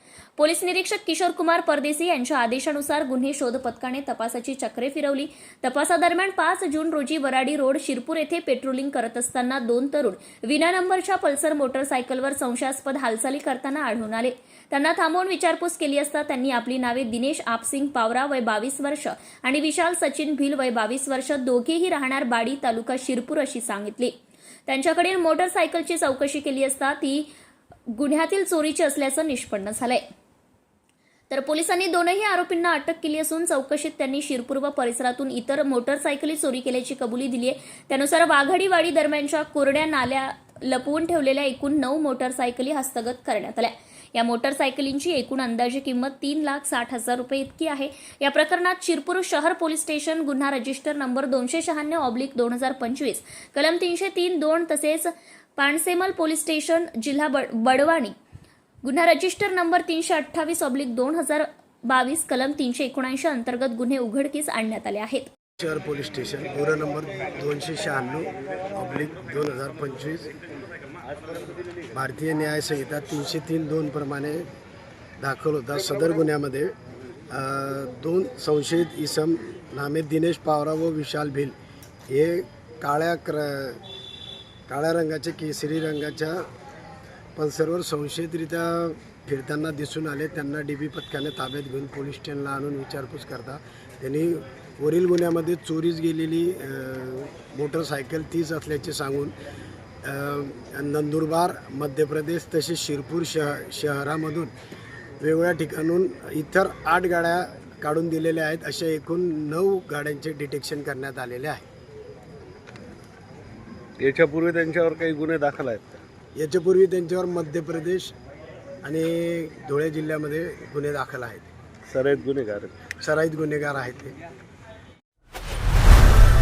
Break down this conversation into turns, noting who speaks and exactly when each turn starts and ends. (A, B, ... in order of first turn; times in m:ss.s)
0:00.4-0:24.1 A
0:24.7-0:27.3 A
0:27.9-0:30.0 A
0:31.3-0:58.1 A
0:58.8-1:05.3 A
1:05.6-1:10.3 B
1:11.9-1:14.4 B
1:15.2-1:16.7 B
1:17.3-1:21.6 B
1:22.1-1:23.8 B
1:24.7-1:26.5 B
1:27.4-1:39.3 B
1:40.0-1:44.5 B
1:45.2-1:51.7 B
1:54.0-1:56.0 C
1:56.4-1:58.1 B
1:58.8-2:01.5 B
2:01.9-2:02.8 C
2:03.0-2:04.2 B